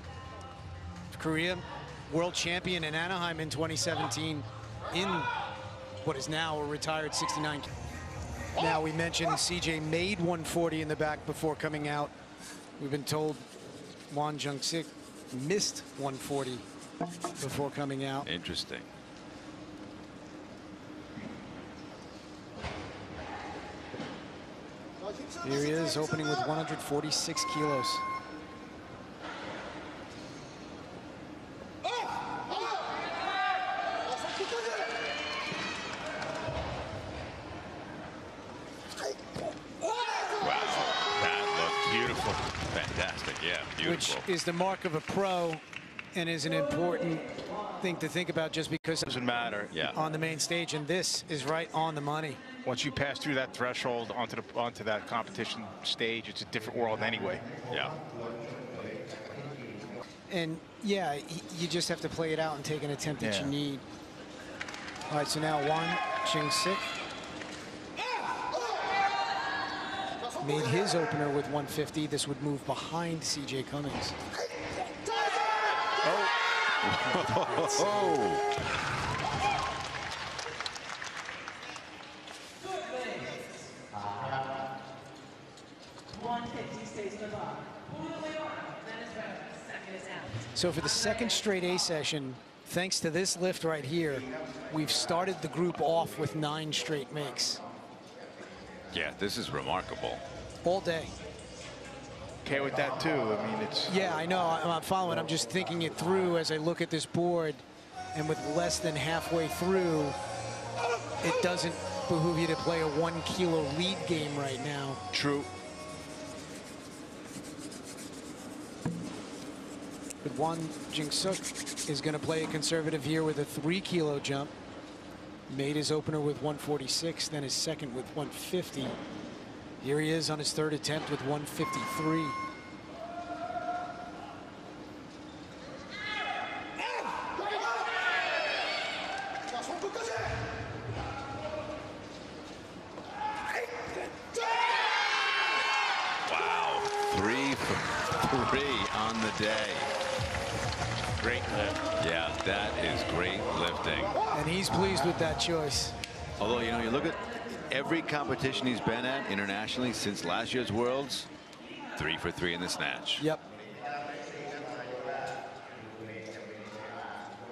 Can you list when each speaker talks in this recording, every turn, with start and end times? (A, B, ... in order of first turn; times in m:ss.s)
0:01.1-0:05.3 A
0:06.0-0:07.7 A
0:08.6-0:12.1 A
0:12.8-0:13.4 A
0:14.1-0:16.7 A
0:17.4-0:18.3 A
0:18.2-0:18.9 B
0:25.4-0:28.0 A
0:40.4-0:44.2 B
0:43.8-0:47.3 A
0:47.8-0:49.1 A
0:49.0-0:49.8 C
0:49.7-0:50.0 B
0:49.8-0:52.4 A
0:52.6-0:57.4 C
1:00.3-1:03.8 A
1:03.2-1:03.6 C
1:05.1-1:06.9 A
1:10.4-1:14.2 A
1:16.8-1:18.5 B
1:30.5-1:37.6 A
1:38.9-1:40.2 B
1:40.6-1:41.1 A
1:42.4-1:44.0 C
1:43.9-1:50.2 A
1:51.2-1:55.0 A
1:55.1-1:55.5 C
2:00.2-2:04.5 A
2:05.5-2:09.0 A
2:09.8-2:12.4 A
2:26.3-2:29.9 B
2:31.2-2:31.8 C
2:32.0-2:34.2 B
2:34.3-2:36.0 A
2:36.4-2:41.3 B
2:42.0-2:43.2 B
2:43.2-2:43.4 A